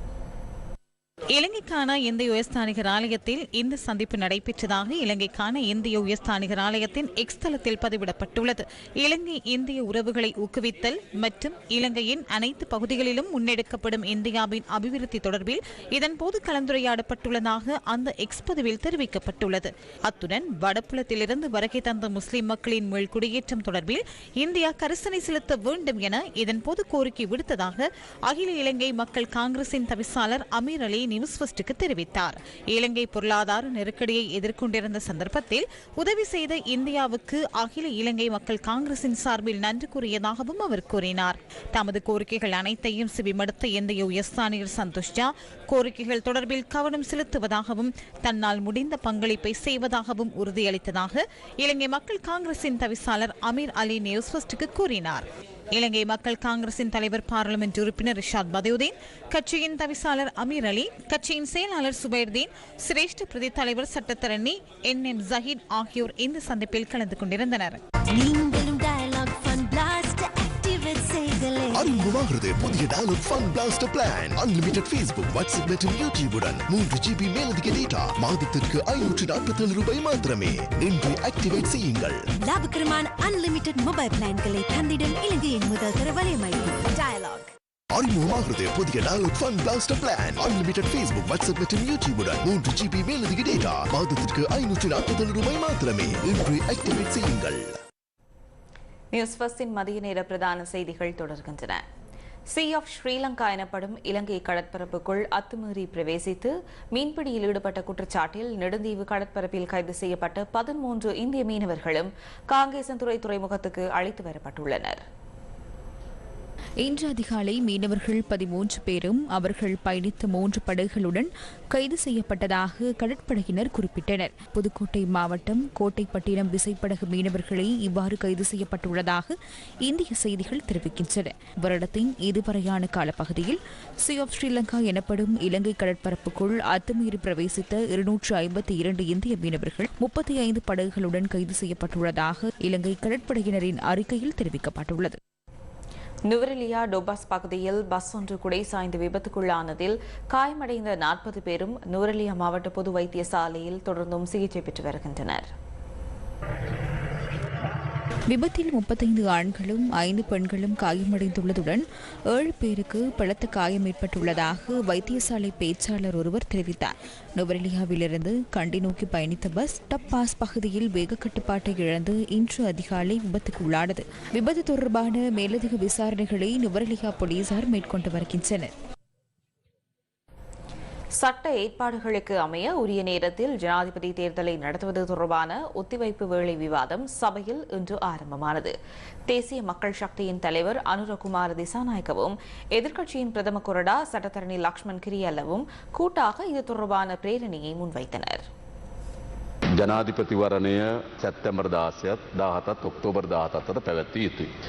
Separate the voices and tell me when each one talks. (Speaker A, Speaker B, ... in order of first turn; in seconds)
Speaker A: 1.3-67.8
Speaker B: 68.1-72.1, 82.4-87.5
Speaker C: 71.7-82.2, 87.9-97.8
Speaker D: 99.1-101.8, 102.5-115.0, 146.3-155.5, 181.2-188.7, 189.3-198.4
Speaker E: 116.8-129.3, 129.8-145.2, 158.3-178.7
Speaker F: 199.8-204.5